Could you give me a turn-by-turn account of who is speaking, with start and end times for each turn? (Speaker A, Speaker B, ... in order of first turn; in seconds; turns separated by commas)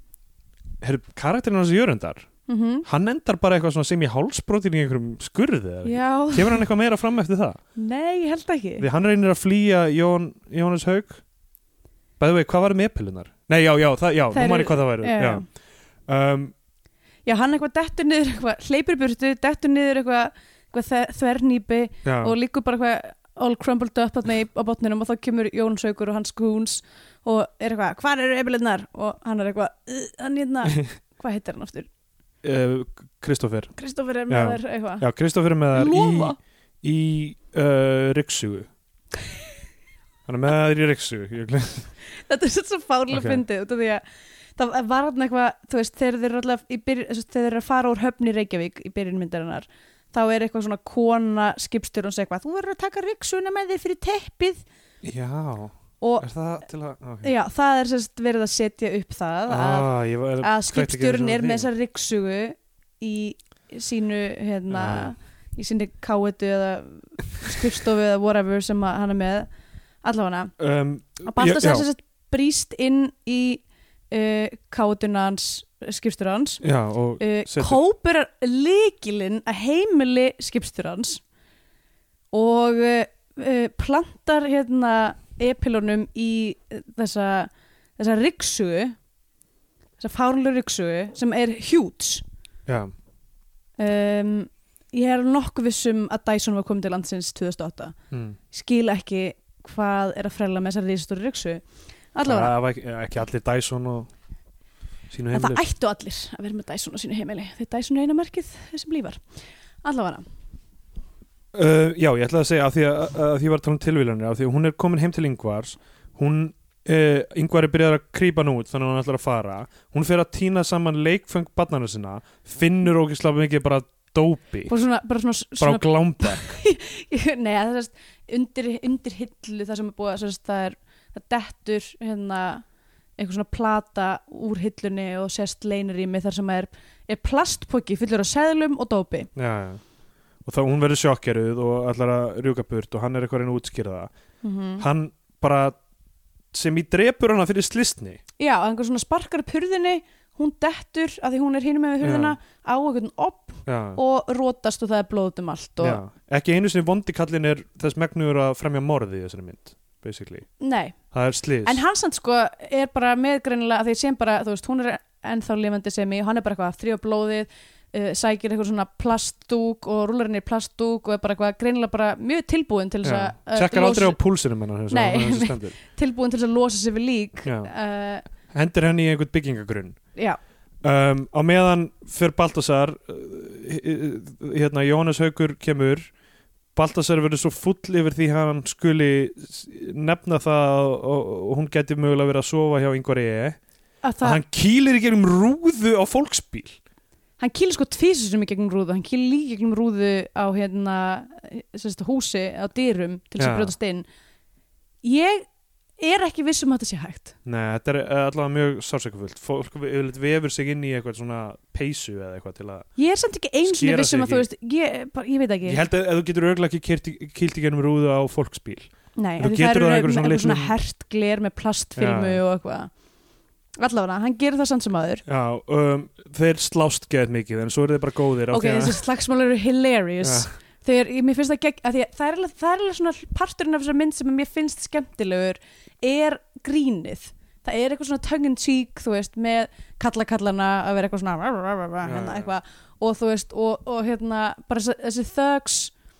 Speaker A: 0.8-2.3, Speaker B: 2.5-2.9, Speaker A: 2.9-7.6, Speaker B: 5.8-6.7, Speaker B: 7.8-8.8, Speaker A: 8.8-11.2, Speaker A: 12.2-15.5, Speaker B: 14.3-15.4, Speaker A: 16.1-16.5, Speaker B: 17.2-31.9, Speaker A: 22.0-22.3, Speaker A: 32.4-33.7, Speaker B: 33.8-35.0, Speaker A: 34.3-38.7, Speaker B: 35.7-36.4, Speaker A: 40.2-41.9, Speaker B: 42.1-44.0, Speaker A: 43.1-43.4, Speaker B: 44.6-54.6, Speaker A: 55.0-57.3, Speaker B: 56.0-56.3, Speaker B: 57.2-69.5, Speaker A: 59.5-61.7, Speaker A: 64.7-65.1, Speaker B: 70.0-70.5, Speaker A: 70.6-71.8, Speaker B: 71.2-76.6, Speaker A: 76.6-77.8, Speaker B: 77.2-81.2, Speaker B: 82.3-89.0, Speaker B: 90.0-92.2, Speaker A: 92.7-92.9, Speaker B: 93.8-97.9, Speaker A: 98.1-98.4, Speaker B: 98.5-101.6, Speaker B: 102.1-102.5, Speaker A: 102.2-104.1, Speaker A: 105.1-105.6, Speaker B: 105.3-109.2, Speaker B: 109.8-110.2, Speaker A: 111.5-124.7, Speaker B: 124.7-132.6, Speaker A: 125.6-126.6, Speaker B: 133.2-139.3, Speaker A: 139.3-139.8, Speaker A: 140.4-144.1, Speaker B: 144.4-144.8, Speaker A: 144.8-145.8, Speaker A: 146.5-148.2, Speaker B: 148.4-156.0, Speaker A: 152.0-152.3, Speaker A: 153.7-154.0, Speaker A: 155.8-160.5, Speaker B: 160.6-161.0, Speaker A: 161.1-161.8, Speaker B: 161.6-174.2, Speaker A: 173.0-175.8, Speaker B: 174.9-178.2, Speaker A: 177.4-177.7, Speaker A: 178.5-180.0, Speaker A: 180.8-186.1, Speaker A: 186.7-193.6, Speaker B: 194.0-194.4, Speaker A: 194.2-196.8, Speaker B: 197.4-204.1, Speaker A: 203.4-203.7, Speaker B: 205.0-205.5, Speaker B: 206.0-207.3, Speaker A: 207.4-212.9, Speaker B: 213.0-215.8, Speaker A: 213.6-214.4, Speaker A: 215.7-220.8, Speaker B: 219.2-222.9, Speaker A: 221.9-222.4, Speaker B: 223.8-225.2, Speaker A: 225.2-229.0, Speaker B: 228.5-245.9, Speaker A: 230.2-230.5, Speaker A: 242.0-242.5